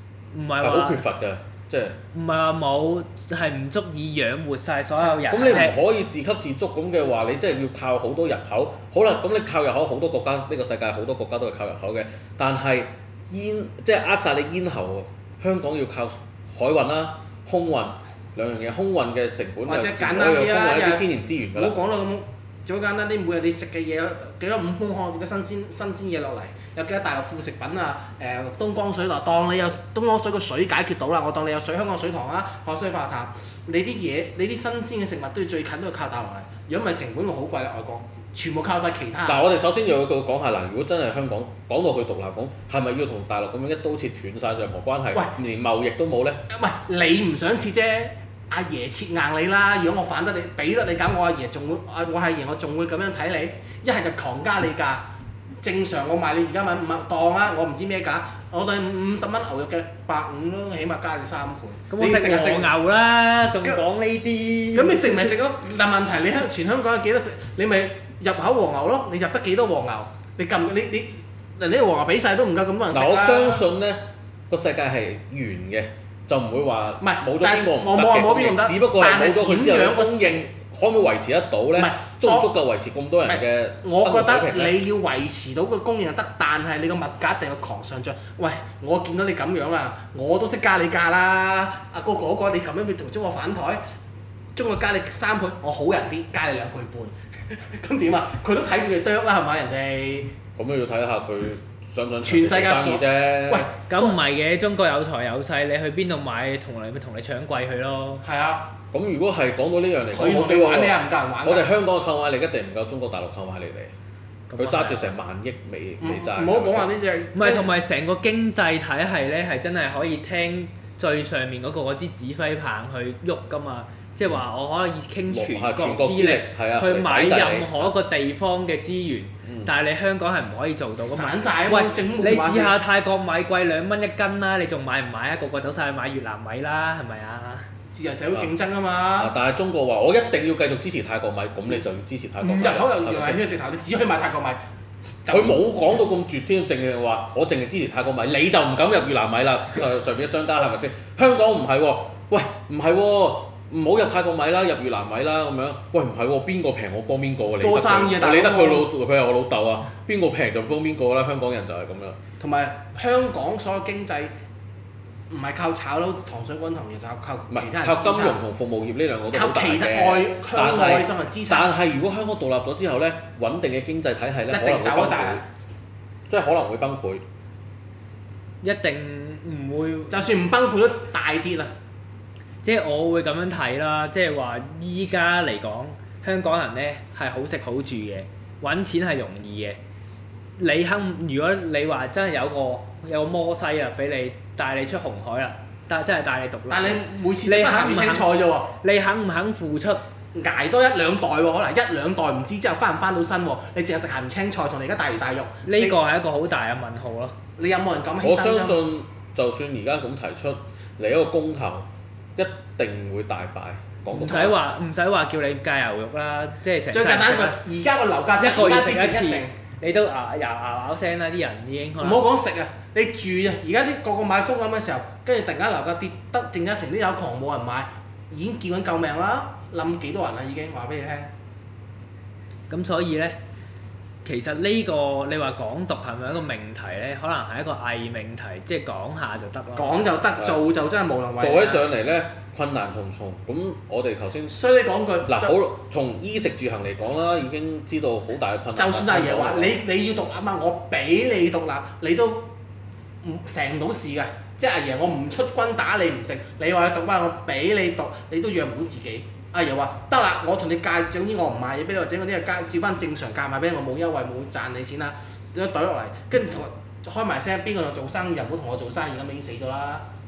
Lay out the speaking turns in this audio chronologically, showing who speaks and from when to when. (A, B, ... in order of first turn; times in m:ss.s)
0:00.3-0:01.0 A
0:00.6-0:02.0 B
0:02.1-0:05.8 A
0:05.0-0:05.7 C
0:05.3-0:21.7 B
0:19.6-0:39.5 C
0:39.3-0:46.4 B
0:46.5-0:55.0 C
0:55.6-1:02.7 C
1:01.9-1:05.4 A
1:04.7-1:13.6 C
1:12.9-1:24.8 B
1:17.0-1:20.5 C
1:21.8-1:22.5 C
1:23.3-1:33.8 C
1:34.6-1:40.3 C
1:40.6-1:43.7 B
1:42.2-1:44.2 C
1:43.9-1:48.2 A
1:48.2-1:48.7 C
1:48.9-1:53.9 B
1:50.1-1:51.7 C
1:54.5-1:55.1 A
1:54.6-1:56.9 B
1:56.0-1:57.7 C
1:57.4-2:17.6 A
2:05.3-2:07.9 B
2:09.4-2:09.7 B
2:11.1-2:12.8 C
2:17.9-2:19.3 C
2:19.2-2:23.4 B
2:22.4-2:25.6 C
2:25.3-2:42.2 B
2:37.6-2:38.9 C
2:42.4-2:44.3 C
2:45.3-2:48.4 C
2:47.5-2:55.4 B
2:49.3-2:51.7 C
2:54.5-2:55.4 C
2:56.3-2:57.2 B
2:58.6-3:00.2 A
3:00.1-3:01.7 C
3:02.6-3:09.8 A
3:10.6-3:18.3 A
3:16.7-3:18.7 C
3:18.8-3:20.0 A
3:20.3-3:26.0 C
3:25.6-3:27.4 A
3:27.6-3:28.8 C
3:28.2-3:34.6 B
3:34.1-3:37.6 A
3:36.9-3:39.5 C
3:38.4-3:42.2 A
3:42.0-3:51.3 C
3:52.7-3:53.4 A
3:54.2-4:00.1 A
3:59.8-4:01.8 C
4:01.4-4:04.6 B
4:04.5-4:05.6 C
4:05.3-4:09.8 B
4:08.8-4:12.5 C
4:13.2-4:30.0 C